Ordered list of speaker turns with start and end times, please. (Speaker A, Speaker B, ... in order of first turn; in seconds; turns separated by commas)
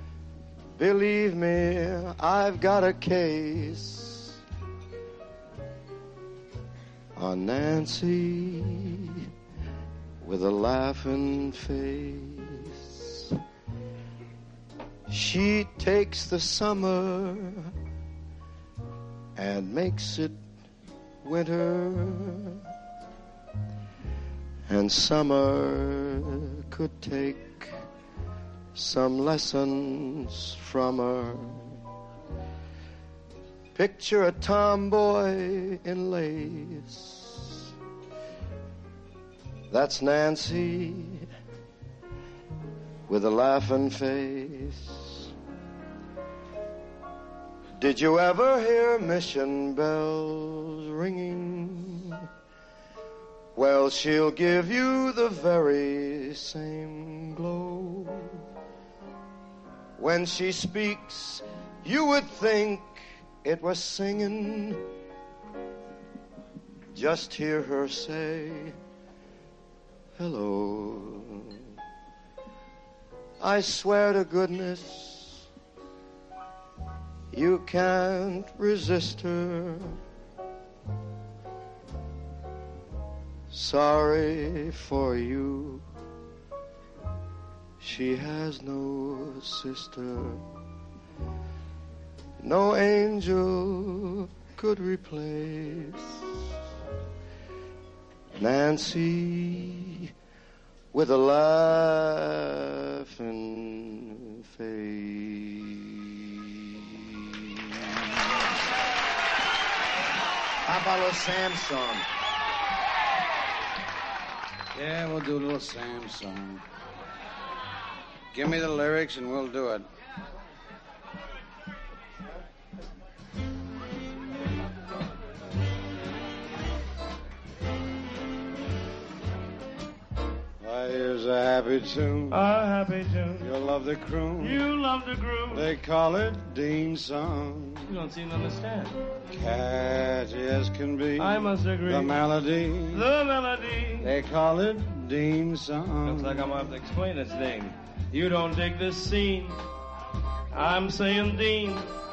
Speaker A: 0.8-4.4, Speaker A: 7.2-9.3, Speaker A: 10.2-13.4, Speaker A: 15.1-17.7, Speaker A: 19.4-20.4, Speaker A: 21.2-22.6, Speaker A: 24.7-27.8, Speaker A: 28.8-31.8, Speaker A: 33.8-37.7, Speaker A: 39.7-41.3, Speaker A: 43.1-45.3, Speaker A: 47.8-52.3, Speaker A: 53.5-58.4, Speaker A: 60.0-64.9, Speaker A: 66.9-68.8, Speaker A: 70.2-71.7, Speaker A: 73.4-75.5, Speaker A: 77.3-80.0, Speaker A: 83.5-85.8, Speaker A: 87.8-90.4, Speaker A: 92.4-96.5, Speaker A: 98.4-100.1, Speaker A: 100.9-107.4, Speaker A: 110.7-112.1, Speaker B: 114.8-116.6, Speaker B: 118.3-119.9, Speaker B: 130.6-132.4, Speaker C: 132.3-133.5, Speaker B: 133.4-134.6, Speaker C: 134.4-135.7, Speaker B: 135.5-137.9, Speaker C: 137.9-139.0, Speaker B: 139.3-143.0, Speaker C: 141.2-142.2, Speaker C: 142.9-144.1, Speaker B: 144.0-146.4, Speaker C: 146.1-149.6, Speaker C: 150.5-151.9